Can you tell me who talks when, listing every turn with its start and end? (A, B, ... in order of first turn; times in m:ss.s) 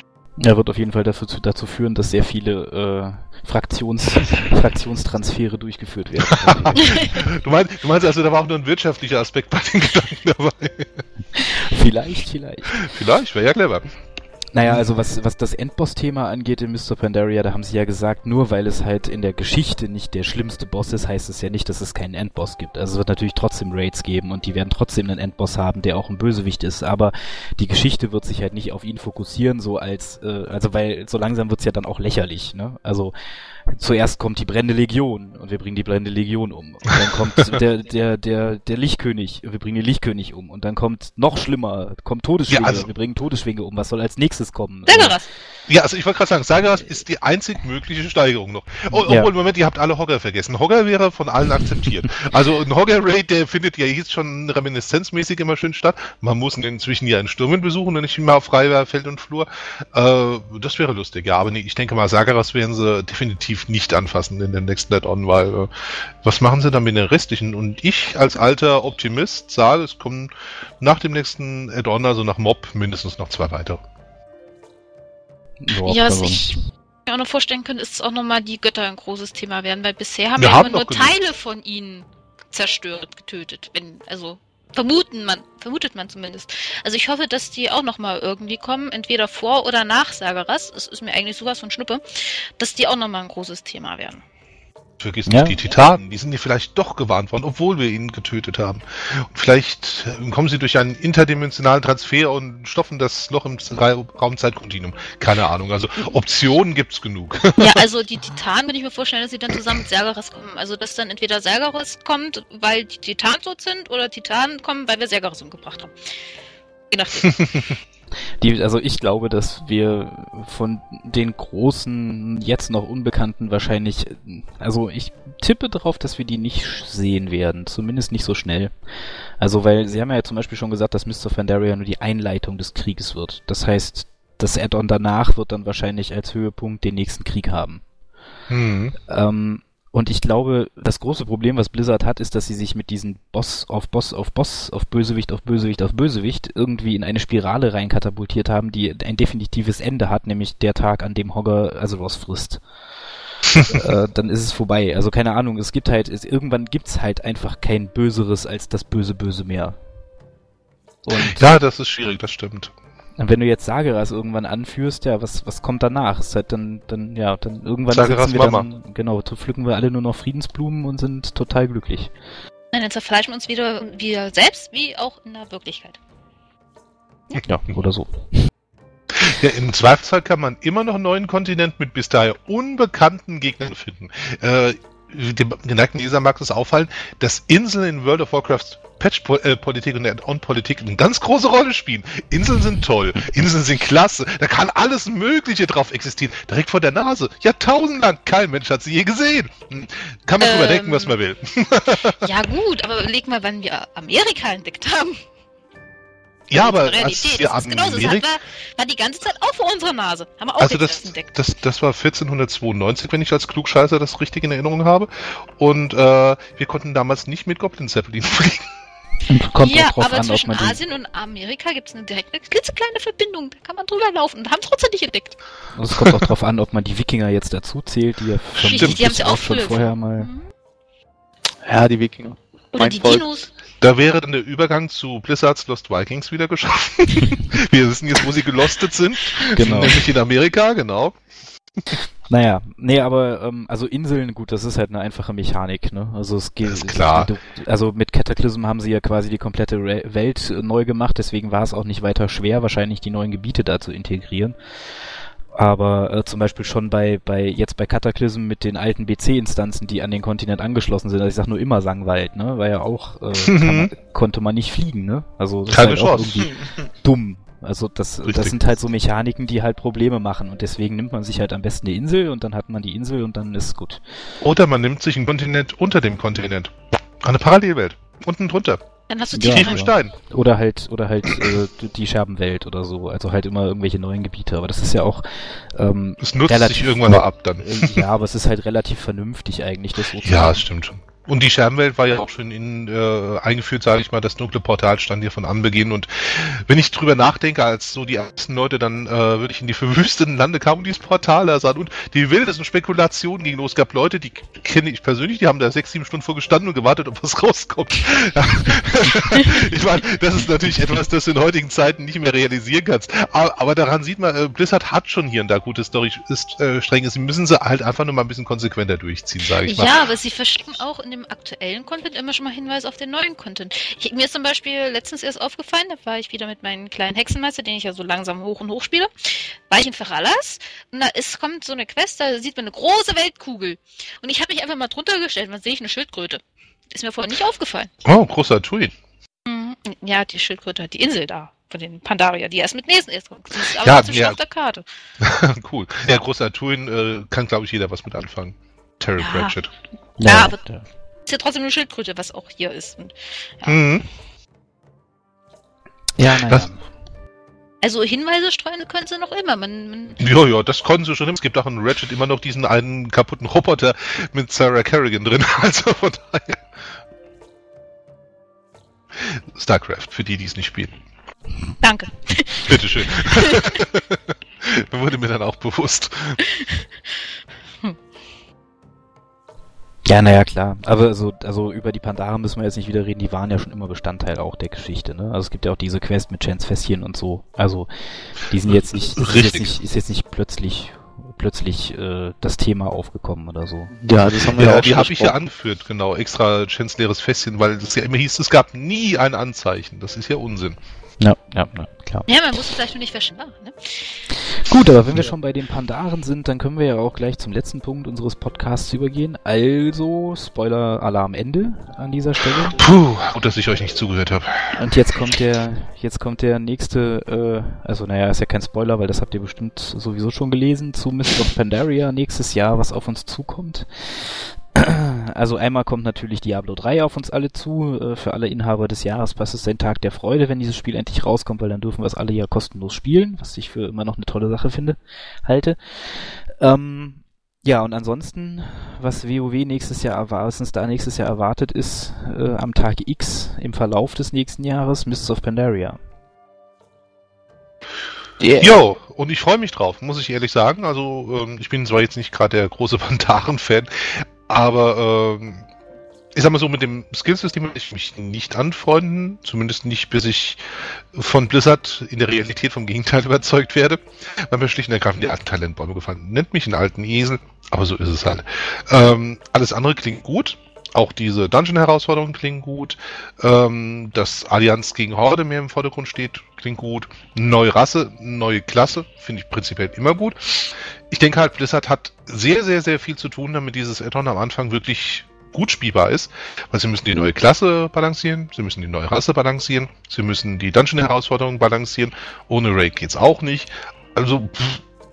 0:00.4-0:07.0 A
0:06.3-0:11.0 B
0:11.4-0:12.9 A
0:12.8-0:13.8 B
0:14.5-0:33.1 A
0:33.7-0:45.2 A
0:42.5-0:42.9 B
0:44.9-0:45.3 C
0:45.7-1:05.7 B
0:48.9-0:49.3 A
1:06.2-1:13.8 B
1:15.6-1:16.5 A
1:15.8-1:34.2 C
1:20.4-1:21.2 B
1:35.0-1:47.8 B
1:35.3-1:35.6 A
1:47.6-1:55.9 C
1:56.9-1:57.7 C
1:58.4-2:08.7 A
2:09.4-2:17.8 A
2:18.5-2:18.9 B
2:19.1-2:32.6 A
2:33.5-2:33.8 B
2:33.6-2:39.8 A
2:41.0-2:41.6 A
2:41.1-2:42.7 B
2:43.2-2:52.1 A
2:47.9-2:48.7 B
2:52.7-2:56.0 C
2:57.4-2:58.4 A
2:59.1-3:22.2 B
3:20.4-3:21.2 C
3:22.1-3:25.2 C
3:26.5-3:28.2 B
3:26.6-3:31.3 C
3:30.6-3:38.7 B
3:39.3-3:40.8 A
3:39.6-3:45.4 C
3:45.8-3:50.3 A
3:48.6-3:50.5 C
3:48.7-3:49.0 B
3:51.6-3:53.3 D
3:52.7-3:53.5 C
3:53.8-4:01.2 B
3:59.5-4:00.0 A
4:02.3-4:14.6 A
4:06.6-4:07.3 B
4:15.5-4:34.0 A
4:23.4-4:23.9 B
4:25.7-4:26.5 B
4:28.2-4:28.6 B
4:34.4-4:38.8 B
4:39.1-4:39.8 C
4:39.3-4:50.7 A
4:39.4-4:40.1 B
4:41.3-4:41.6 B
4:46.2-4:48.0 B
4:50.2-5:20.1 B
5:19.6-5:37.9 C
5:38.0-5:38.9 B
5:39.5-5:44.8 C
5:43.6-5:44.4 B
5:45.2-5:49.7 B
5:49.2-5:49.5 C
5:50.2-5:50.8 A
5:50.2-5:50.6 C
5:51.3-5:53.8 C
5:53.7-5:54.0 B
5:56.2-5:56.8 A
5:56.3-5:56.7 B
5:57.8-6:00.2 C
6:00.2-6:06.7 B
6:09.1-6:10.9 B
6:11.8-6:13.8 C
6:12.7-6:16.4 B
6:16.6-6:16.8 C
6:20.1-6:34.0 A
6:29.2-6:29.7 B
6:34.0-6:35.4 D
6:34.6-6:40.8 B
6:41.2-6:42.3 A
6:42.3-6:44.2 C
6:44.4-6:52.8 A
6:52.7-6:54.8 B
6:54.8-7:26.0 A
7:28.4-7:28.8 D
7:28.6-7:35.7 B
7:36.3-8:14.8 B